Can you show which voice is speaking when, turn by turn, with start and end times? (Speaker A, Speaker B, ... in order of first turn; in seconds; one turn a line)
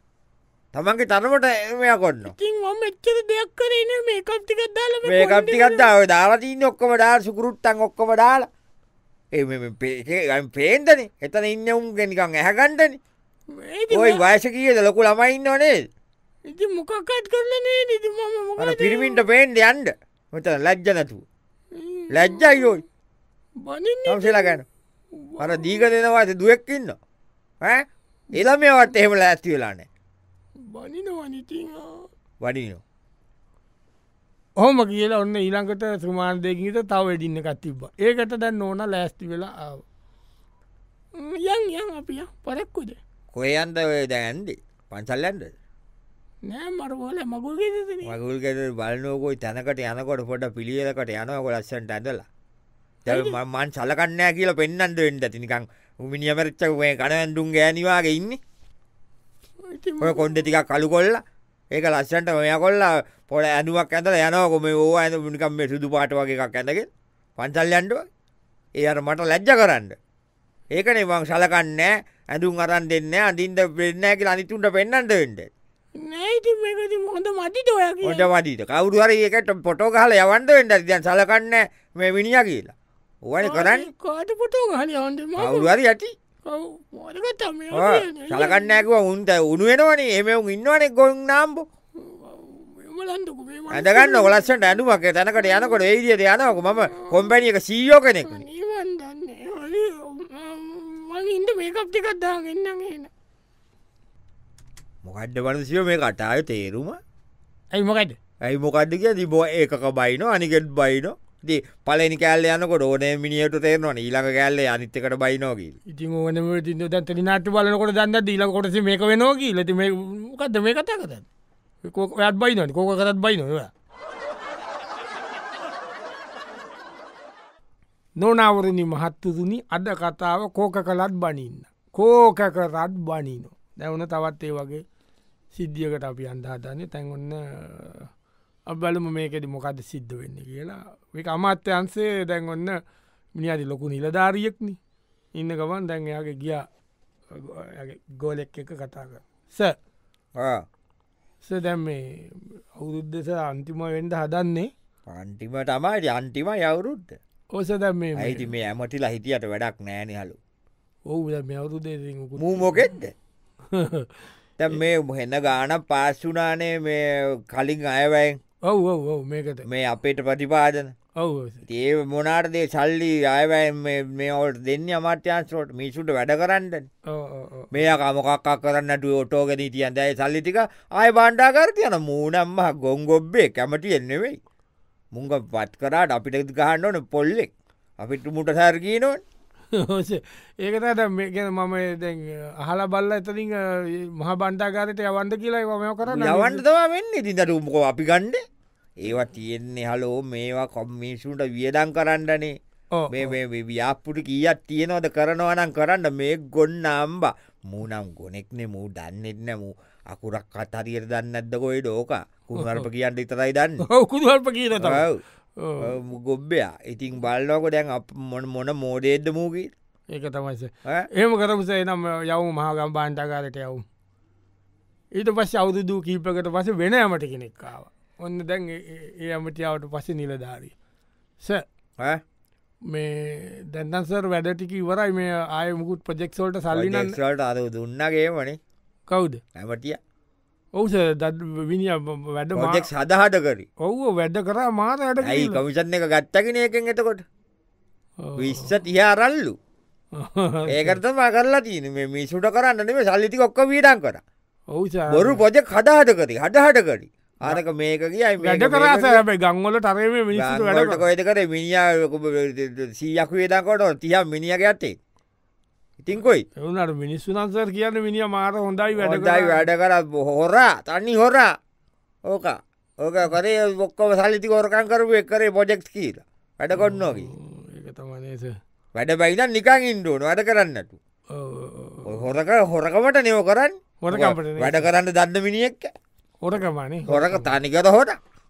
Speaker A: 0.7-2.3
Speaker B: 2.2-5.9
Speaker A: 5.0-8.5
Speaker A: 9.3-13.0
Speaker B: 13.5-14.2
Speaker A: 13.9-15.9
Speaker B: 16.5-19.2
Speaker A: 18.6-21.2
Speaker B: 21.7-22.7
Speaker A: 22.1-22.8
Speaker B: 23.6-24.6
Speaker A: 24.1-24.6
Speaker B: 25.1-25.8
Speaker A: 25.4-27.0
Speaker A: 27.6-29.9
Speaker B: 30.6-32.1
Speaker A: 32.4-32.8
Speaker B: 34.6-39.8
Speaker B: 41.1-43.0
Speaker A: 43.3-45.5
Speaker B: 46.5-48.1
Speaker A: 48.0-52.2
Speaker A: 53.0-58.4
Speaker B: 53.1-53.4
Speaker B: 59.6-60.4
Speaker A: 60.0-61.2
Speaker A: 61.7-68.0
Speaker A: 68.8-70.0
Speaker A: 70.7-75.5
Speaker B: 76.0-78.3
Speaker A: 78.0-82.7
Speaker A: 83.2-83.9
Speaker B: 83.4-85.7
Speaker A: 85.4-86.1
Speaker B: 86.5-88.8
Speaker A: 87.7-91.7
Speaker B: 92.0-94.6
Speaker A: 93.7-98.5
Speaker B: 95.4-95.8
Speaker B: 96.5-97.4
Speaker B: 98.2-103.1
Speaker A: 105.0-107.0
Speaker B: 107.7-108.2
Speaker A: 108.4-115.8
Speaker B: 115.9-121.2
Speaker B: 121.8-123.7
Speaker B: 128.2-134.8
Speaker B: 135.5-138.1
Speaker B: 138.7-142.8
Speaker B: 143.3-144.8
Speaker B: 145.3-146.7
Speaker B: 147.3-149.8
Speaker A: 150.4-150.7
Speaker B: 151.4-154.7
Speaker A: 155.1-157.2
Speaker B: 157.5-158.5
Speaker A: 158.2-160.4
Speaker B: 161.1-162.9
Speaker A: 162.4-163.1
Speaker B: 163.7-164.1
Speaker A: 164.6-168.4
Speaker B: 168.6-169.7
Speaker A: 169.6-170.9
Speaker B: 171.2-171.6
Speaker A: 171.7-176.9
Speaker B: 177.1-177.7
Speaker A: 177.7-184.4
Speaker A: 185.1-189.2
Speaker B: 189.7-196.6
Speaker A: 196.1-198.4
Speaker A: 199.0-202.5
Speaker B: 202.9-203.3
Speaker A: 203.1-213.8
Speaker B: 212.6-212.8
Speaker B: 213.8-215.1
Speaker A: 214.8-215.2
Speaker B: 215.6-215.9
Speaker A: 215.8-219.7
Speaker B: 220.1-223.8
Speaker B: 225.1-230.7
Speaker B: 232.8-237.2
Speaker A: 236.7-238.6
Speaker B: 239.1-239.4
Speaker A: 239.5-240.0
Speaker B: 240.8-242.9
Speaker A: 242.5-243.7
Speaker B: 243.8-245.6
Speaker A: 245.2-247.2
Speaker B: 248.2-248.7
Speaker A: 248.4-249.6
Speaker B: 250.2-251.0
Speaker A: 250.7-254.2
Speaker B: 254.7-255.4
Speaker A: 255.1-259.2
Speaker B: 258.4-261.0
Speaker A: 260.3-265.0
Speaker A: 266.0-266.4
Speaker B: 266.6-269.6
Speaker A: 269.0-271.5
Speaker A: 272.3-277.3
Speaker B: 276.7-278.6
Speaker A: 278.9-281.0
Speaker B: 281.3-282.3
Speaker A: 282.1-285.9
Speaker B: 284.0-284.9
Speaker B: 286.4-287.5
Speaker A: 287.1-288.2